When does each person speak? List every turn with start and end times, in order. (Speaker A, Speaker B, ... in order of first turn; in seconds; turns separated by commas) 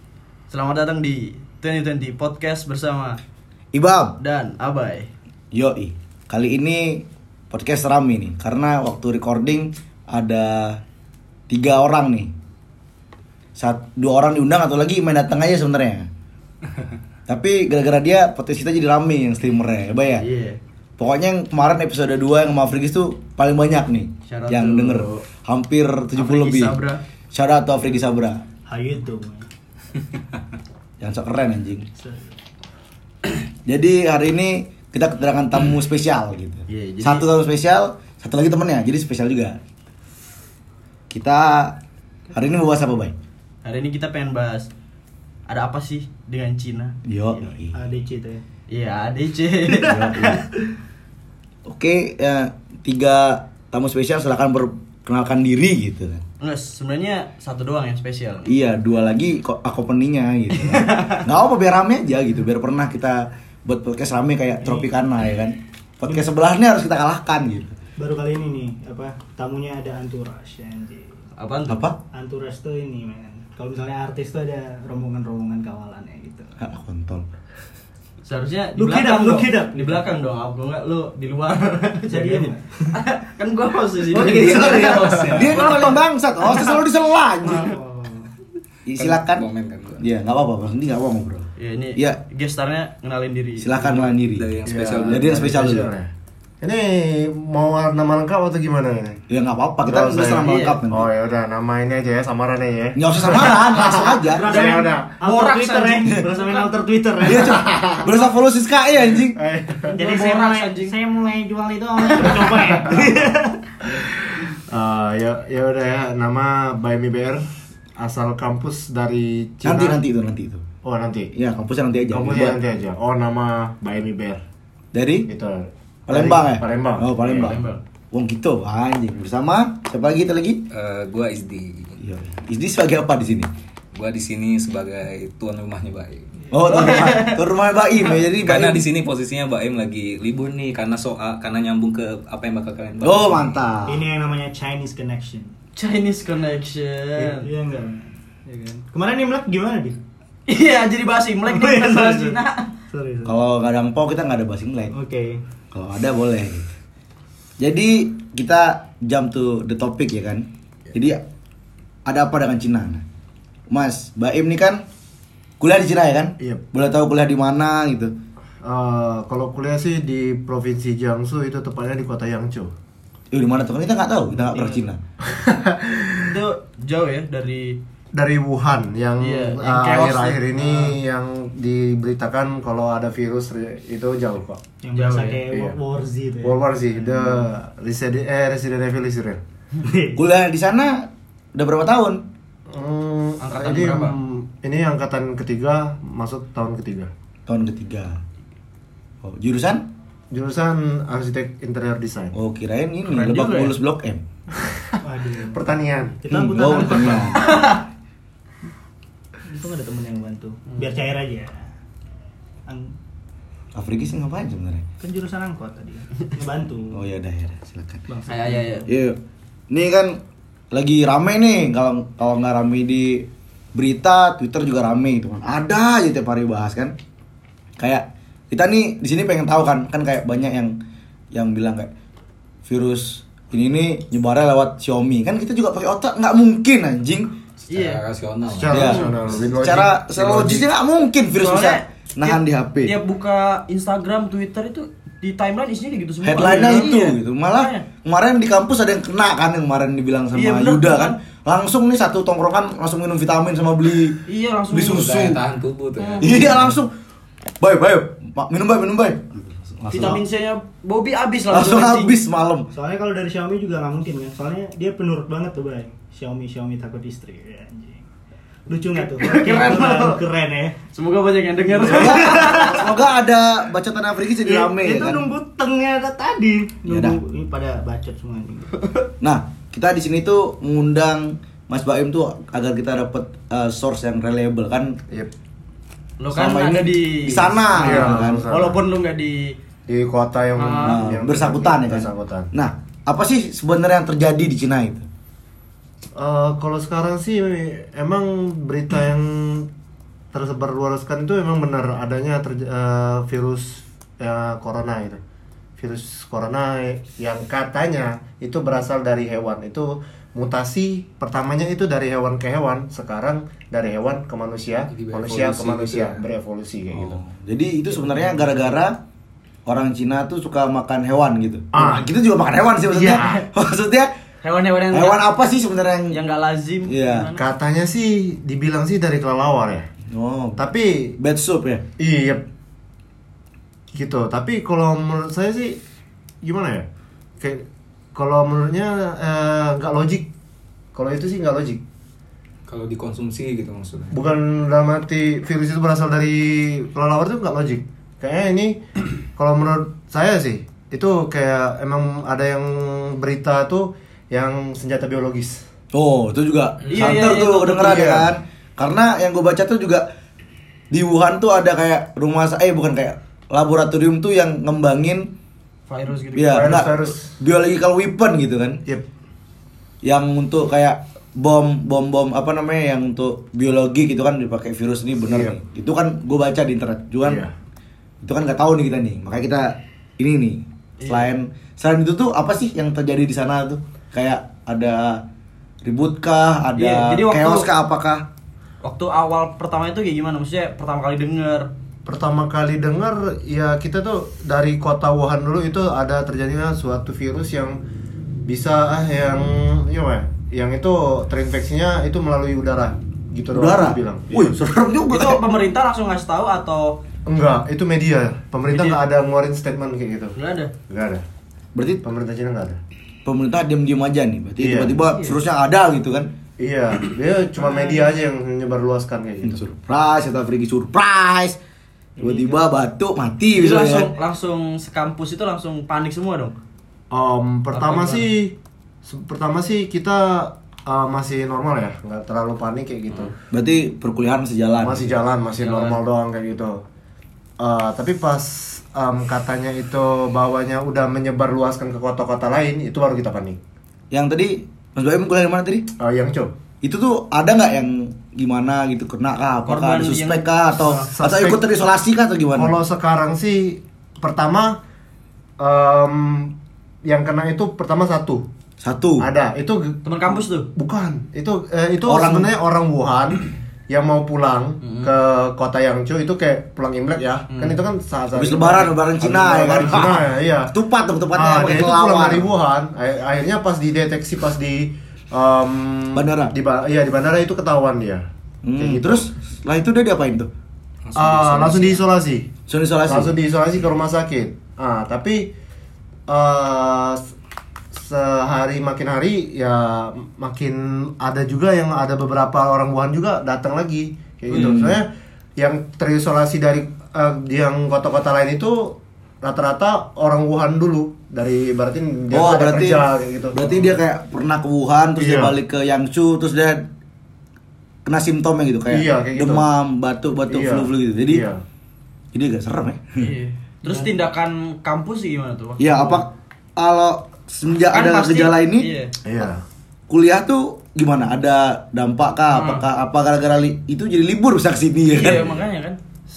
Speaker A: 0.5-3.2, Speaker B: 3.7-4.2, Speaker A: 4.2-5.1, Speaker B: 5.5-10.8, Speaker B: 11.5-12.3, Speaker B: 13.6-16.1, Speaker B: 17.3-20.2, Speaker A: 20.2-20.6, Speaker B: 21.0-26.8, Speaker A: 24.3-25.2, Speaker A: 26.2-27.0, Speaker B: 27.3-28.4, Speaker C: 28.7-29.4, Speaker B: 31.0-31.9, Speaker C: 32.0-32.4, Speaker B: 33.6-39.6, Speaker A: 36.7-37.3, Speaker B: 41.1-41.8, Speaker B: 42.3-43.2, Speaker A: 43.6-44.7, Speaker A: 45.5-47.0, Speaker B: 47.0-47.8, Speaker C: 47.5-48.4, Speaker A: 48.7-50.5, Speaker B: 49.8-50.4, Speaker B: 51.6-56.2, Speaker A: 56.4-58.5, Speaker B: 58.5-67.8, Speaker A: 60.5-61.2, Speaker C: 64.6-64.9, Speaker C: 68.0-71.2, Speaker A: 71.4-71.8, Speaker B: 71.7-72.0, Speaker C: 72.1-76.5, Speaker B: 76.6-77.3, Speaker A: 78.2-86.8, Speaker C: 78.8-80.1, Speaker C: 82.1-83.0, Speaker D: 84.1-85.5, Speaker B: 84.1-87.7, Speaker E: 84.9-85.2, Speaker C: 87.5-88.3, Speaker B: 88.9-89.5, Speaker E: 89.0-90.0, Speaker B: 90.0-92.2, Speaker A: 91.6-94.1, Speaker B: 93.6-94.5, Speaker E: 94.3-95.4, Speaker D: 94.7-99.2, Speaker B: 95.1-95.9, Speaker B: 99.3-101.1, Speaker D: 99.8-105.1, Speaker A: 100.4-100.8, Speaker B: 103.0-104.5, Speaker C: 104.3-108.1, Speaker A: 104.5-106.7, Speaker B: 107.2-109.4, Speaker D: 107.4-108.1, Speaker D: 109.3-109.9, Speaker A: 109.9-111.0, Speaker C: 109.9-113.7, Speaker A: 112.0-112.6, Speaker D: 112.7-113.1, Speaker D: 113.9-117.5, Speaker D: 118.0-120.0, Speaker B: 119.6-120.6, Speaker D: 120.8-121.3, Speaker B: 121.3-122.6, Speaker D: 122.1-124.4, Speaker B: 124.9-125.3, Speaker D: 125.3-127.1, Speaker B: 126.1-127.6, Speaker A: 127.2-127.8, Speaker B: 128.1-130.7, Speaker E: 130.7-132.0, Speaker B: 132.0-133.5, Speaker E: 133.9-136.3, Speaker B: 136.5-138.9, Speaker A: 136.7-137.4, Speaker E: 138.4-143.6, Speaker B: 143.0-144.0, Speaker C: 143.9-145.5, Speaker A: 145.8-147.5, Speaker C: 147.2-150.0, Speaker A: 150.5-152.7, Speaker C: 151.5-153.4, Speaker B: 153.2-154.9, Speaker C: 154.9-155.4, Speaker B: 155.7-156.7, Speaker B: 157.6-161.2, Speaker B: 162.1-163.0, Speaker B: 163.7-164.8, Speaker B: 165.6-168.2, Speaker D: 168.6-172.7, Speaker B: 173.3-175.0, Speaker A: 174.5-174.8, Speaker D: 175.2-176.4, Speaker A: 176.2-177.8, Speaker D: 178.1-184.6, Speaker A: 179.2-180.9, Speaker C: 184.8-187.5, Speaker A: 184.9-185.5, Speaker D: 185.5-185.8, Speaker D: 186.4-189.4, Speaker C: 189.8-190.2, Speaker B: 190.2-192.3, Speaker D: 192.7-197.1, Speaker A: 193.4-194.2, Speaker B: 197.5-198.2, Speaker B: 199.2-199.9, Speaker D: 200.3-202.3, Speaker B: 202.3-204.2, Speaker A: 203.1-203.8, Speaker D: 204.6-206.2, Speaker C: 205.0-205.7, Speaker C: 206.2-207.8, Speaker B: 206.3-207.5, Speaker A: 206.8-207.8, Speaker C: 209.5-211.7, Speaker C: 212.7-212.9, Speaker B: 213.8-214.9, Speaker C: 215.0-217.0, Speaker B: 216.9-218.1, Speaker C: 218.1-218.8, Speaker A: 218.3-218.9, Speaker B: 218.9-219.2, Speaker B: 219.7-220.2, Speaker B: 220.7-226.9, Speaker B: 227.8-230.8, Speaker B: 231.3-231.9, Speaker B: 232.7-237.3, Speaker E: 237.7-239.0, Speaker A: 237.7-238.0, Speaker D: 238.5-240.7, Speaker B: 238.7-242.9, Speaker A: 238.8-239.2, Speaker A: 241.3-247.9, Speaker B: 246.2-255.4, Speaker A: 250.3-251.2, Speaker A: 254.3-255.3, Speaker E: 254.9-256.5, Speaker A: 256.0-256.5, Speaker B: 256.2-256.9, Speaker B: 257.6-260.2, Speaker A: 259.9-262.2, Speaker B: 261.5-262.7, Speaker C: 262.7-268.0, Speaker C: 268.7-270.8, Speaker A: 269.0-270.3, Speaker A: 270.9-272.9, Speaker C: 271.8-272.8, Speaker B: 271.8-275.2, Speaker C: 274.4-279.0, Speaker B: 276.9-277.2, Speaker B: 279.2-285.0, Speaker A: 286.2-289.6, Speaker B: 286.3-288.5, Speaker D: 287.8-288.8, Speaker D: 289.9-292.5, Speaker A: 290.6-291.0, Speaker B: 290.8-295.1, Speaker D: 296.2-299.7, Speaker D: 300.3-305.2, Speaker D: 305.8-317.2, Speaker E: 314.9-316.2, Speaker B: 316.9-319.0, Speaker B: 319.7-324.1, Speaker D: 321.7-322.1, Speaker D: 322.9-323.4, Speaker A: 324.4-325.3, Speaker B: 324.9-326.2, Speaker A: 326.1-327.5, Speaker B: 326.9-327.3, Speaker D: 327.4-329.9, Speaker B: 330.1-330.6, Speaker D: 330.6-331.2, Speaker B: 331.2-331.9, Speaker D: 332.0-332.5, Speaker D: 333.9-335.8, Speaker D: 336.4-336.9, Speaker D: 337.4-340.3, Speaker D: 340.9-341.8, Speaker E: 342.7-344.2, Speaker D: 344.1-355.7, Speaker B: 355.9-360.1, Speaker A: 356.9-358.1, Speaker D: 357.8-358.3, Speaker B: 360.9-365.3, Speaker A: 365.9-367.0, Speaker B: 366.4-368.8, Speaker D: 366.5-367.4, Speaker B: 370.0-377.4, Speaker D: 375.2-375.6, Speaker D: 377.2-377.5, Speaker B: 378.2-385.2, Speaker A: 381.0-381.3, Speaker B: 385.8-388.3, Speaker A: 386.8-387.7, Speaker A: 388.8-391.7, Speaker D: 392.1-397.8, Speaker D: 398.5-404.6, Speaker B: 403.5-405.4, Speaker A: 405.1-407.0, Speaker D: 407.3-410.4, Speaker A: 408.7-409.0, Speaker A: 410.4-410.7, Speaker D: 410.9-411.2, Speaker B: 411.8-412.0, Speaker D: 412.0-412.8, Speaker B: 413.2-416.3, Speaker D: 414.6-415.0, Speaker A: 415.0-415.4, Speaker D: 416.6-419.6, Speaker A: 417.7-418.0, Speaker B: 419.4-421.6, Speaker B: 422.2-424.1, Speaker A: 423.5-426.6, Speaker D: 427.1-433.3, Speaker A: 427.7-428.3, Speaker B: 433.5-435.2, Speaker D: 434.8-436.8, Speaker A: 435.6-436.0, Speaker D: 437.6-443.6, Speaker B: 444.1-445.9, Speaker D: 446.0-446.5, Speaker B: 446.8-452.8, Speaker A: 449.7-451.1, Speaker D: 450.9-451.6, Speaker D: 452.6-454.8, Speaker D: 455.6-458.5, Speaker B: 458.8-459.3, Speaker D: 459.2-470.7, Speaker A: 460.0-460.7, Speaker B: 462.1-462.5, Speaker A: 464.8-465.1, Speaker A: 467.5-467.8, Speaker B: 468.3-472.5, Speaker D: 471.3-478.3, Speaker B: 476.1-476.5, Speaker B: 478.6-480.5, Speaker D: 478.8-479.3, Speaker E: 481.1-481.8, Speaker D: 481.1-482.5, Speaker B: 481.4-482.0, Speaker B: 482.7-483.4, Speaker D: 483.1-485.5, Speaker D: 486.3-487.2, Speaker D: 487.9-503.9, Speaker B: 494.5-495.0, Speaker B: 502.3-506.9, Speaker D: 505.2-505.5, Speaker B: 508.1-511.5, Speaker D: 508.9-509.7, Speaker D: 510.5-511.6, Speaker B: 512.3-513.3, Speaker A: 513.2-516.2, Speaker B: 515.8-518.9, Speaker A: 517.9-519.1, Speaker D: 519.2-519.6, Speaker B: 520.1-525.6, Speaker A: 522.5-522.8, Speaker A: 525.1-526.0